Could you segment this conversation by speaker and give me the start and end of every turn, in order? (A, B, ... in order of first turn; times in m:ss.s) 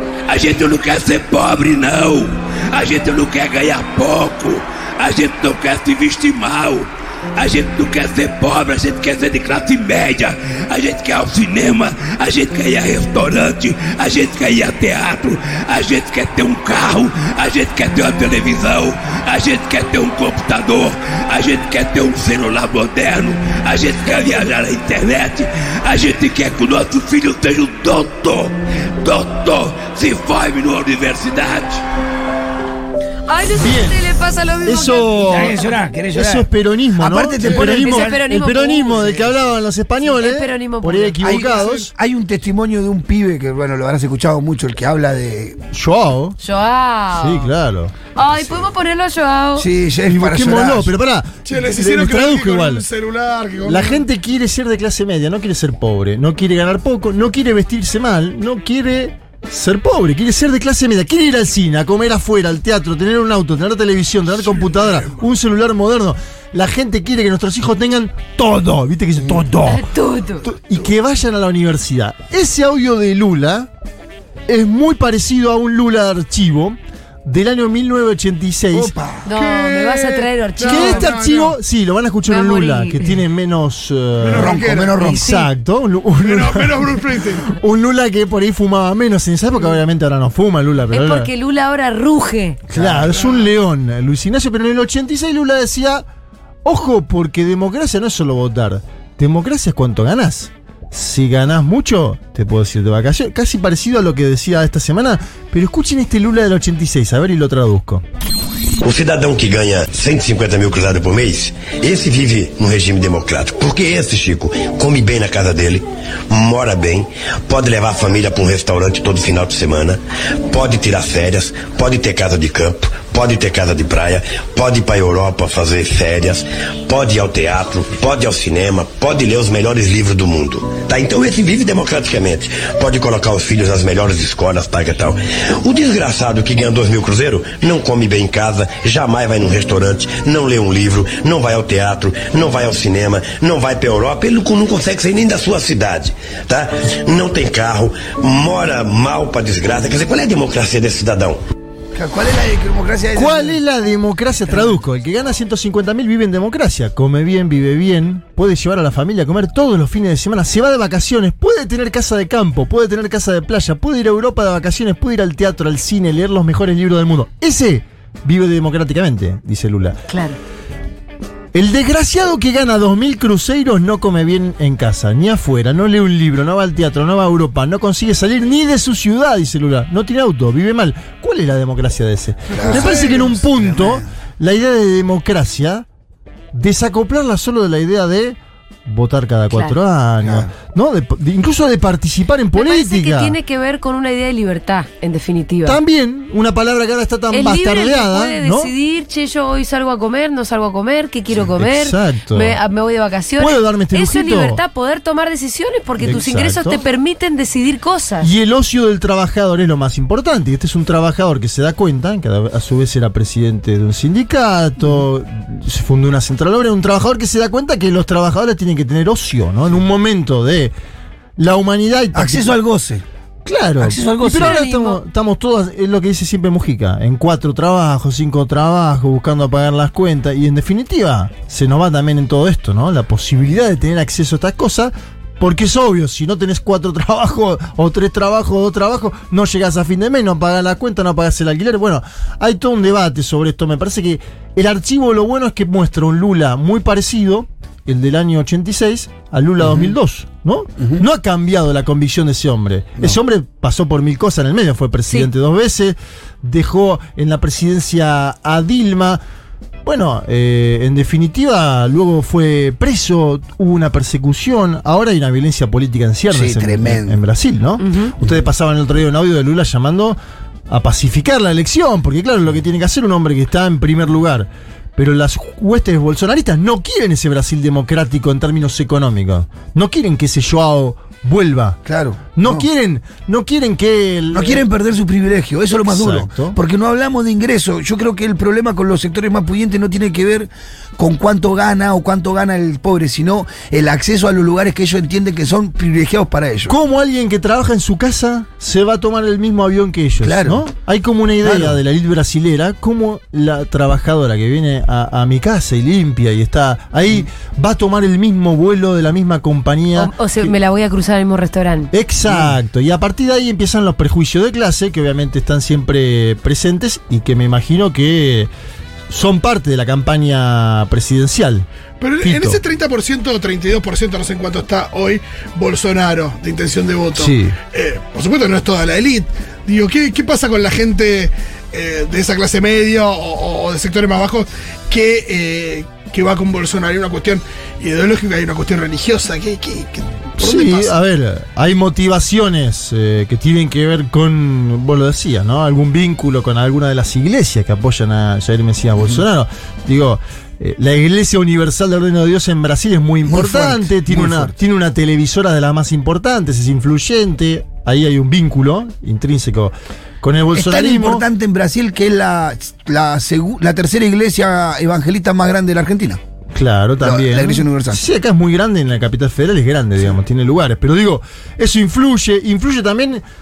0:00.3-0:31.8 A
0:33.3-0:35.7 B
0:33.6-0:34.0 C
0:34.6-0:35.6 C
0:35.3-0:36.5 D
0:36.1-0:41.9 C
0:37.0-0:38.2 D
0:37.5-0:39.1 B
0:38.9-0:39.4 D
0:40.0-0:41.2 B
0:41.2-0:45.6 D
0:45.7-0:46.4 C
0:46.4-0:47.5 B
0:47.1-0:47.9 C
0:48.2-0:49.7 B
0:49.6-0:50.9 D
0:50.1-0:52.8 C
0:51.5-0:54.0 E
0:53.6-1:09.8 C
1:04.5-1:05.2 E
1:09.6-1:10.5 B
1:10.4-1:13.7 C
1:14.5-1:19.0 C
1:18.7-1:19.3 D
1:19.2-1:21.1 B
1:19.4-1:21.6 E
1:20.6-1:31.3 C
1:22.3-1:23.1 B
1:24.2-1:25.1 E
1:24.4-1:25.4 D
1:26.2-1:27.5 E
1:30.9-1:32.6 B
1:32.7-1:36.1 C
1:32.7-1:33.2 D
1:36.6-1:48.0 C
1:48.8-2:31.4 F
2:32.0-2:33.6 D
2:33.1-2:50.0 C
2:50.1-2:50.4 B
2:51.5-3:05.9 C
3:02.5-3:04.1 D
3:02.7-3:03.2 E
3:06.5-3:13.4 C
3:09.5-3:09.8 B
3:10.2-3:10.5 D
3:12.6-3:15.8 B
3:15.6-3:18.7 C
3:17.3-3:28.3 B
3:21.6-3:22.6 C
3:23.4-3:24.6 C
3:26.0-3:26.8 C
3:28.2-3:40.7 C
3:41.4-3:42.5 C
3:42.1-3:43.0 D
3:43.4-4:19.2 C
3:43.8-3:44.6 D
3:44.4-3:45.0 B
4:09.6-4:09.9 D
4:19.8-4:30.2 C
4:26.3-4:27.2 D
4:27.8-4:28.1 B
4:30.7-4:41.8 C
4:41.9-4:42.7 D
4:42.4-4:44.6 C
4:44.3-4:56.8 D
4:45.9-4:46.6 C
4:56.7-5:10.5 C
5:00.2-5:00.6 D
5:01.4-5:01.8 D
5:10.0-5:11.9 B
5:11.9-5:18.5 C
5:12.3-5:12.5 D
5:19.1-5:21.7 C
5:22.0-5:40.9 E
5:22.2-5:22.6 C
5:27.2-5:27.6 C
5:40.4-6:01.2 C
5:53.3-5:54.5 D
6:00.6-6:06.2 D
6:06.5-6:13.2 C
6:07.0-6:08.0 D